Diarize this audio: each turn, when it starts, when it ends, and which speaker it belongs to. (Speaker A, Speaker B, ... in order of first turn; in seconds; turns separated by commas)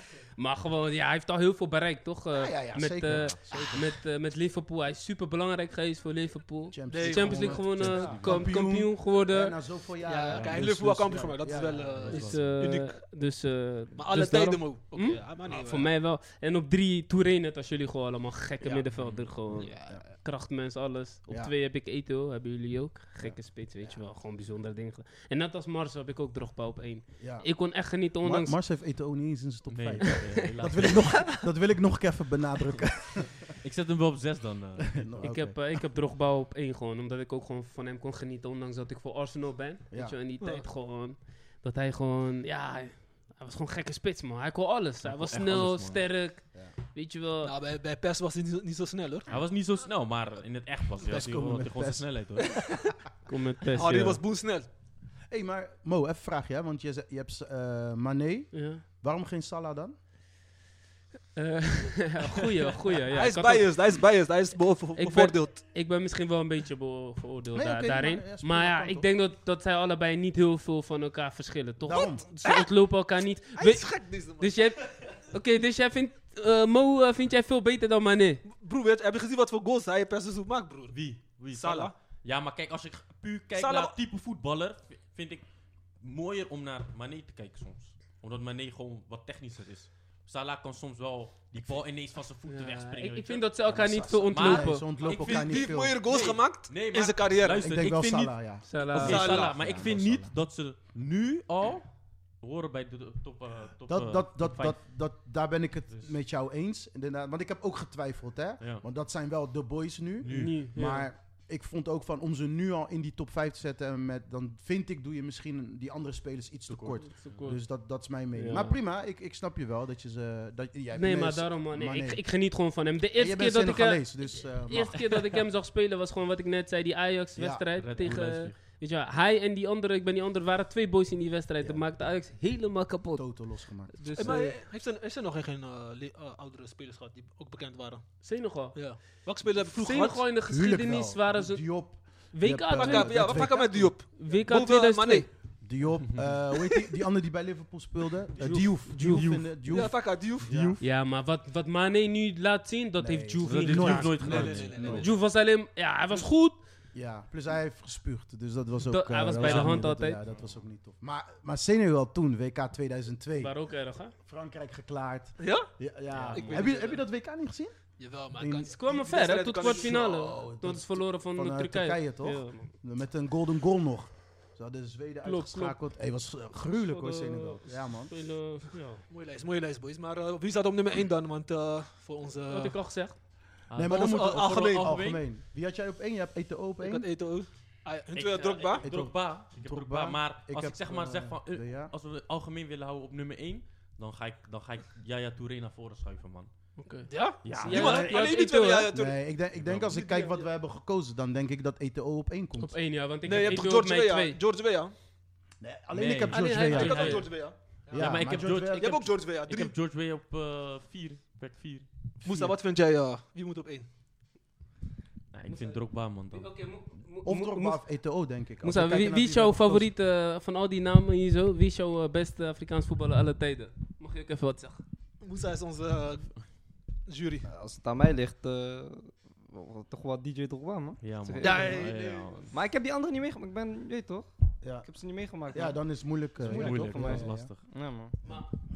Speaker A: 0.3-9.6, Speaker B: 2.3-3.9, Speaker C: 3.1-3.4, Speaker B: 6.7-12.4, Speaker D: 6.9-8.0, Speaker C: 7.7-8.6, Speaker D: 10.0-13.2, Speaker C: 10.3-10.7, Speaker C: 12.0-12.5, Speaker A: 12.1-28.6, Speaker D: 13.9-15.9, Speaker B: 18.6-18.9, Speaker C: 18.9-19.3, Speaker D: 19.6-20.0, Speaker B: 19.6-20.0, Speaker B: 21.3-21.5, Speaker B: 23.2-24.0, Speaker B: 27.2-33.4, Speaker C: 29.7-31.1, Speaker C: 32.9-35.3, Speaker B: 34.9-35.6, Speaker A: 35.2-47.5, Speaker B: 39.9-40.1, Speaker D: 40.4-40.7, Speaker C: 45.0-46.1, Speaker D: 47.4-49.3, Speaker C: 49.3-52.5, Speaker B: 51.0-52.8, Speaker D: 52.4-52.9, Speaker A: 53.2-54.2, Speaker D: 53.6-54.7, Speaker B: 55.3-60.0, Speaker A: 58.5-58.8, Speaker A: 61.3-64.0, Speaker D: 63.1-65.6, Speaker A: 64.9-78.4, Speaker B: 67.5-69.1, Speaker B: 71.8-72.2, Speaker D: 73.5-74.7, Speaker D: 78.4-81.9, Speaker C: 80.9-104.9, Speaker D: 83.5-83.9, Speaker A: 92.5-94.9, Speaker B: 93.7-96.0, Speaker D: 95.0-97.7, Speaker B: 97.6-100.3, Speaker A: 98.7-99.2, Speaker D: 98.9-99.8, Speaker B: 103.9-122.5, Speaker C: 105.9-106.1, Speaker C: 108.6-108.8, Speaker C: 110.2-110.6, Speaker A: 110.2-111.1, Speaker C: 116.7-117.5, Speaker A: 117.0-117.7, Speaker A: 118.3-118.8, Speaker A: 120.9-134.6, Speaker B: 123.1-125.5, Speaker B: 127.3-127.7, Speaker C: 127.8-128.6, Speaker B: 131.6-131.9, Speaker B: 133.1-134.4, Speaker D: 134.2-140.3, Speaker A: 138.2-145.3, Speaker B: 140.3-143.9, Speaker D: 142.7-145.3, Speaker B: 145.6-150.8, Speaker C: 146.0-146.3, Speaker A: 148.4-149.3, Speaker C: 149.0-149.9, Speaker D: 149.7-150.5, Speaker C: 150.4-150.8, Speaker A: 150.8-156.6, Speaker B: 153.0-155.1, Speaker C: 153.4-155.1, Speaker D: 154.2-155.1, Speaker B: 156.9-163.5, Speaker A: 158.8-160.2, Speaker C: 159.3-160.6, Speaker A: 163.3-164.1, Speaker B: 164.2-168.7, Speaker D: 165.4-167.1, Speaker C: 166.1-166.6, Speaker D: 168.0-170.0, Speaker A: 168.7-172.7, Speaker B: 169.6-178.1, Speaker A: 175.2-175.8, Speaker A: 176.7-179.0, Speaker D: 178.9-182.9, Speaker A: 182.5-183.2, Speaker C: 183.7-185.2, Speaker B: 183.7-187.1, Speaker D: 183.9-184.9, Speaker D: 186.8-188.8, Speaker C: 188.1-196.5, Speaker B: 188.8-191.9, Speaker A: 196.8-198.9, Speaker D: 197.1-199.2, Speaker C: 197.4-198.0, Speaker B: 197.6-198.2, Speaker B: 198.8-202.8, Speaker C: 199.5-199.9, Speaker D: 199.9-200.5, Speaker A: 202.6-204.4, Speaker D: 203.2-204.9, Speaker B: 205.6-207.4, Speaker C: 205.9-206.9, Speaker A: 206.3-207.3, Speaker D: 206.7-209.7, Speaker B: 207.9-208.9, Speaker C: 207.9-211.9, Speaker B: 212.2-212.6, Speaker D: 212.2-213.9, Speaker C: 215.3-216.6, Speaker A: 215.5-224.8, Speaker B: 217.2-219.9, Speaker D: 225.2-227.5, Speaker E: 227.5-234.3, Speaker C: 231.0-232.7, Speaker D: 231.4-232.3, Speaker B: 234.6-234.9, Speaker E: 234.9-235.7, Speaker B: 235.5-237.5, Speaker C: 236.4-237.8, Speaker E: 236.5-238.1, Speaker A: 238.2-238.5